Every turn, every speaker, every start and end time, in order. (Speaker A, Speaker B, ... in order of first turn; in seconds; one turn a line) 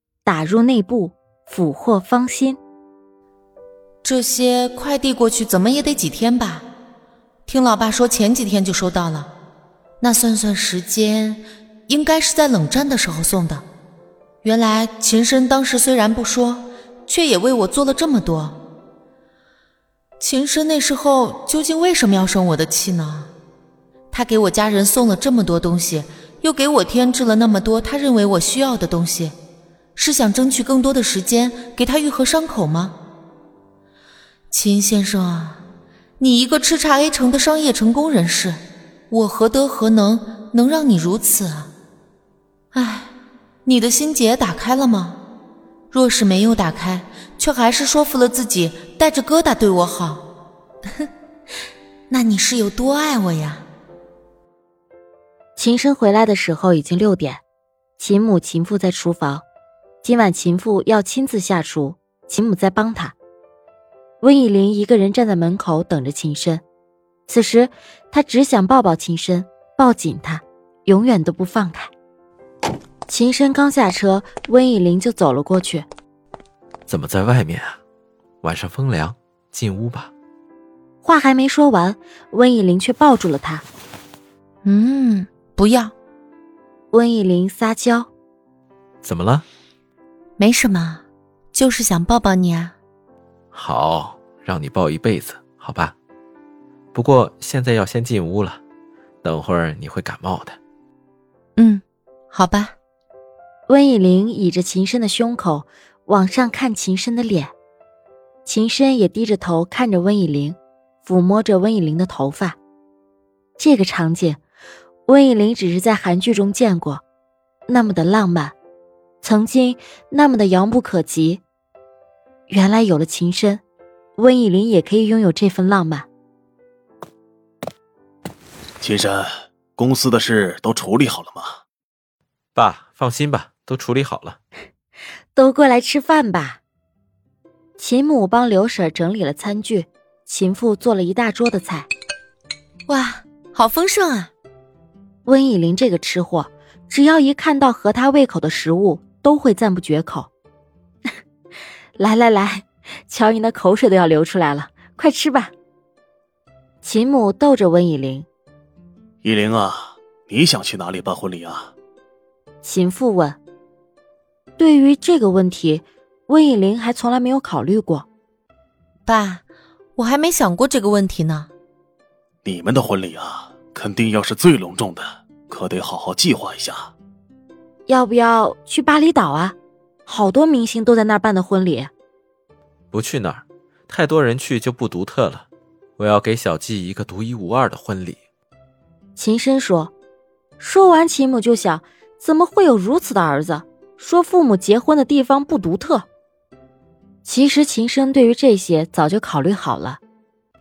Speaker A: 0.2-2.6
Speaker B: 4.0-6.7
Speaker B: 7.5-9.3
Speaker B: 10.0-13.6
Speaker B: 14.4-18.6
Speaker B: 20.2-23.3
Speaker B: 24.1-29.3
Speaker B: 29.9-33.0
Speaker B: 34.5-35.6
Speaker B: 36.2-38.6
Speaker B: 39.1-41.7
Speaker B: 42.7-43.1
Speaker B: 43.6-45.2
Speaker B: 45.9-50.2
Speaker B: 52.1-53.6
Speaker A: 55.6-57.4
Speaker A: 58.0-59.4
Speaker A: 60.0-63.1
Speaker A: 64.2-66.6
Speaker A: 67.3-71.9
Speaker A: 73.1-75.8
Speaker C: 76.9-77.8
Speaker C: 78.4-80.1
Speaker A: 81.0-83.6
Speaker B: 84.6-85.9
Speaker A: 86.9-88.1
Speaker C: 89.0-89.4
Speaker B: 90.4-92.7
Speaker C: 93.5-95.9
Speaker C: 96.9-98.6
Speaker C: 99.2-100.6
Speaker B: 101.6-102.7
Speaker A: 103.7-107.5
Speaker A: 108.5-112.6
Speaker A: 113.6-114.4
Speaker A: 115.1-117.0
Speaker A: 117.7-118.5
Speaker A: 119.2-121.4
Speaker A: 122.5-123.6
Speaker A: 124.2-126.0
Speaker D: 128.8-131.5
Speaker C: 132.5-134.4
Speaker A: 135.3-136.6
Speaker A: 137.8-141.9
Speaker B: 142.9-144.3
Speaker A: 145.2-150.3
Speaker A: 152.0-155.5
Speaker A: 156.8-158.3
Speaker D: 159.2-161.7
Speaker A: 162.6-163.4
Speaker A: 164.6-168.1
Speaker B: 169.1-169.4
Speaker B: 170.0-171.5
Speaker D: 172.4-176.9
Speaker A: 177.9-181.9
Speaker C: 182.9-185.4
Speaker C: 186.0-188.2
Speaker A: 189.2-189.9
Speaker A: 190.6-196.1
Speaker A: 197.2-200.0